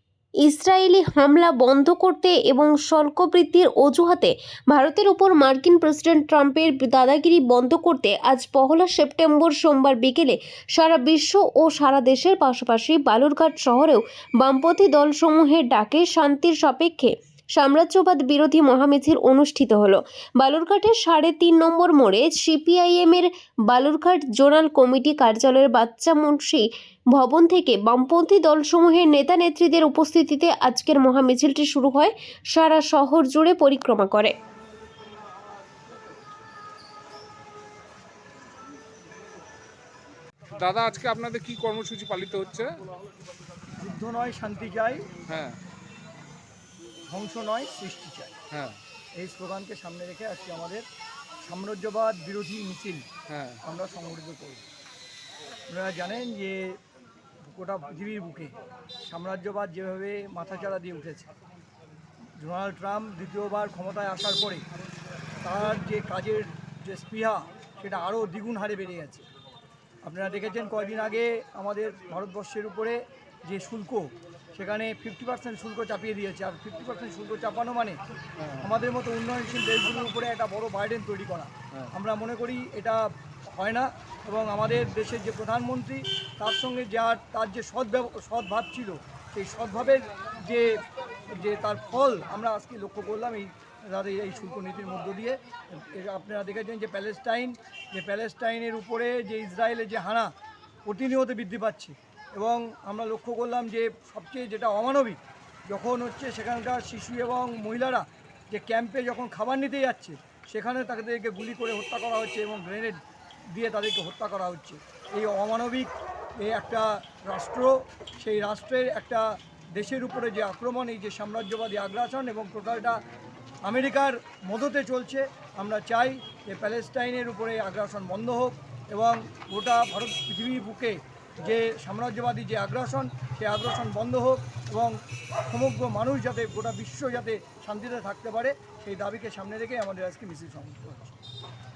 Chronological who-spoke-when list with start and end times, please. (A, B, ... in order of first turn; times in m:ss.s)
0:00.4-0:34.3 A
0:40.6-0:42.8 B
0:43.8-0:45.1 C
0:45.3-0:45.6 B
0:47.1-0:48.3 C
0:48.5-0:48.8 B
0:49.2-0:50.8 C
0:51.4-0:53.1 C
0:53.3-0:53.6 B
0:53.6-0:54.6 C
0:55.7-0:56.8 C
0:57.4-1:01.3 C
1:02.4-1:04.6 C
1:05.4-1:09.2 C
1:10.0-1:18.0 C
1:18.4-1:18.7 B
1:18.6-1:40.3 C
1:40.9-1:53.0 C
1:53.5-2:03.0 C
2:03.6-2:15.0 C
2:15.5-2:21.2 C